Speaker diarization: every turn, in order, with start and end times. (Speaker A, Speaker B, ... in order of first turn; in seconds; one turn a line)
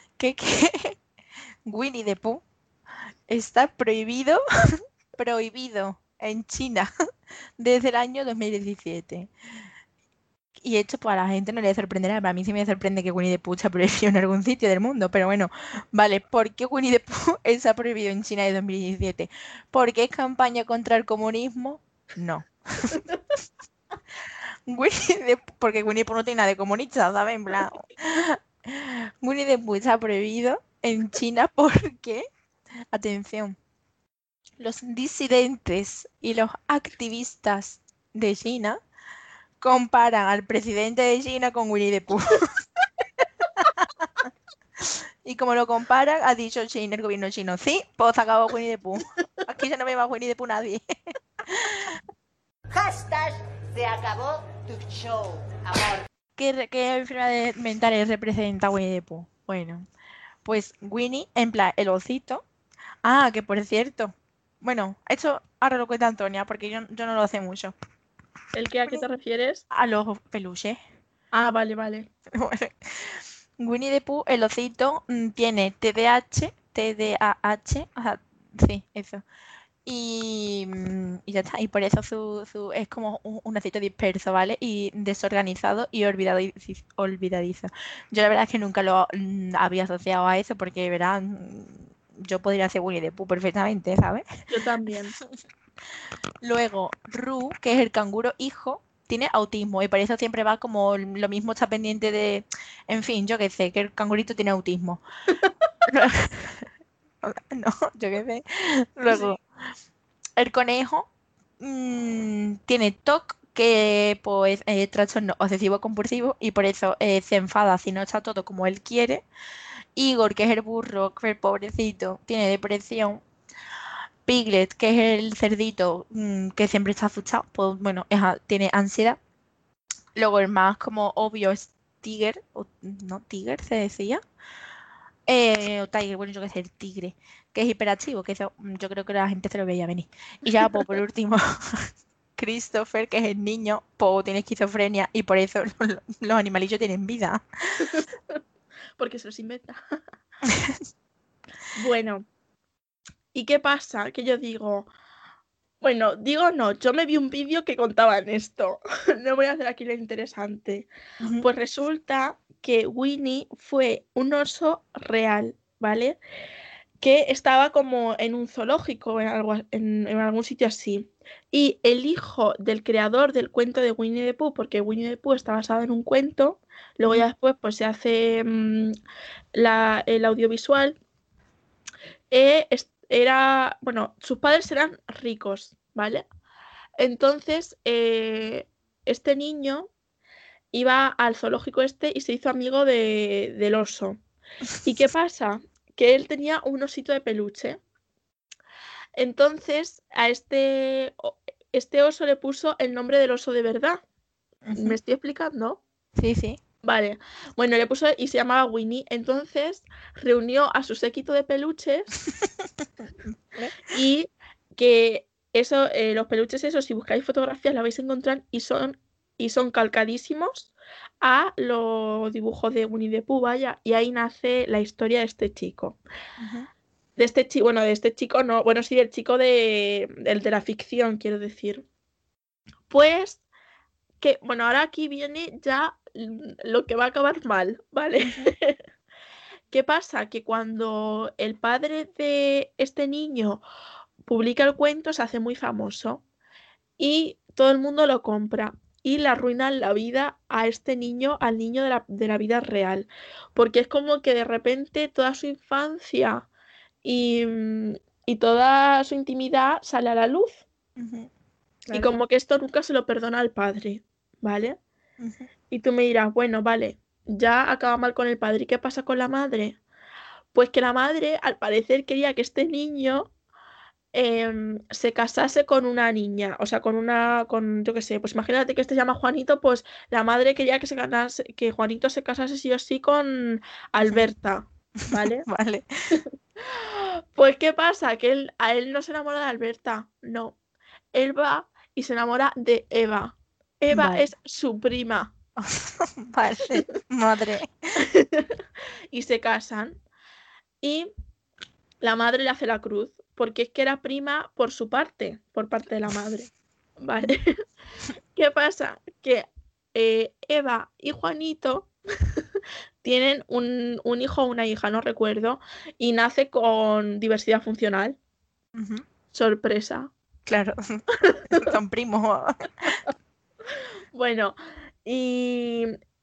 Speaker A: 0.2-1.0
Speaker A: 1.6-2.4
Speaker A: 3.3-4.4
Speaker A: 5.2-6.9
Speaker A: 7.6-9.3
Speaker A: 10.6-23.1
Speaker A: 24.7-32.2
Speaker A: 32.9-33.5
Speaker A: 34.6-38.8
Speaker A: 39.6-42.6
Speaker A: 43.8-44.0
Speaker A: 44.8-50.8
Speaker A: 51.5-51.9
Speaker B: 52.7-56.0
Speaker A: 56.4-59.9
Speaker A: 60.4-62.4
Speaker A: 63.0-67.7
Speaker C: 68.5-69.6
Speaker A: 69.7-70.8
Speaker C: 71.3-72.1
Speaker A: 72.3-79.2
Speaker A: 79.8-94.2
Speaker C: 94.5-95.1
Speaker A: 96.4-105.0
Speaker A: 105.9-106.7
Speaker A: 107.2-109.4
Speaker A: 110.4-111.1
Speaker A: 111.6-119.2
Speaker A: 120.0-123.2
Speaker A: 124.2-129.2
Speaker A: 130.2-134.2
Speaker A: 135.3-147.8
Speaker C: 147.9-148.4
Speaker C: 149.0-149.8
Speaker A: 150.5-150.8
Speaker C: 151.7-152.2
Speaker C: 153.3-154.9
Speaker C: 155.8-160.9
Speaker A: 161.2-161.5
Speaker C: 161.4-166.2
Speaker C: 167.0-178.9
Speaker C: 179.5-181.0
Speaker C: 182.3-186.2
Speaker C: 187.0-189.9
Speaker C: 190.7-194.2
Speaker C: 194.8-197.8
Speaker C: 199.2-204.0
Speaker A: 204.7-205.0
Speaker C: 204.8-205.8
Speaker A: 206.2-206.6
Speaker C: 206.8-212.1
Speaker C: 213.9-226.0
Speaker A: 226.4-226.7
Speaker C: 227.2-231.8
Speaker C: 232.9-233.4
Speaker C: 234.2-238.8
Speaker C: 239.7-243.6
Speaker C: 244.3-246.2
Speaker C: 247.0-256.5
Speaker C: 257.0-260.6
Speaker A: 261.0-261.3
Speaker A: 261.9-262.2
Speaker C: 261.9-264.8
Speaker A: 265.2-265.5
Speaker C: 265.7-269.8
Speaker C: 270.5-273.3
Speaker C: 274.1-285.4
Speaker A: 285.1-285.9
Speaker C: 286.7-290.6
Speaker C: 291.1-295.3
Speaker A: 293.9-294.2
Speaker A: 295.6-297.7
Speaker C: 298.0-298.5
Speaker C: 299.1-300.0
Speaker C: 300.8-301.1
Speaker C: 302.0-307.5
Speaker C: 308.3-311.9
Speaker C: 313.0-318.2
Speaker A: 318.7-319.0
Speaker C: 319.3-320.1
Speaker A: 320.4-322.9
Speaker C: 321.3-321.6
Speaker C: 324.1-325.9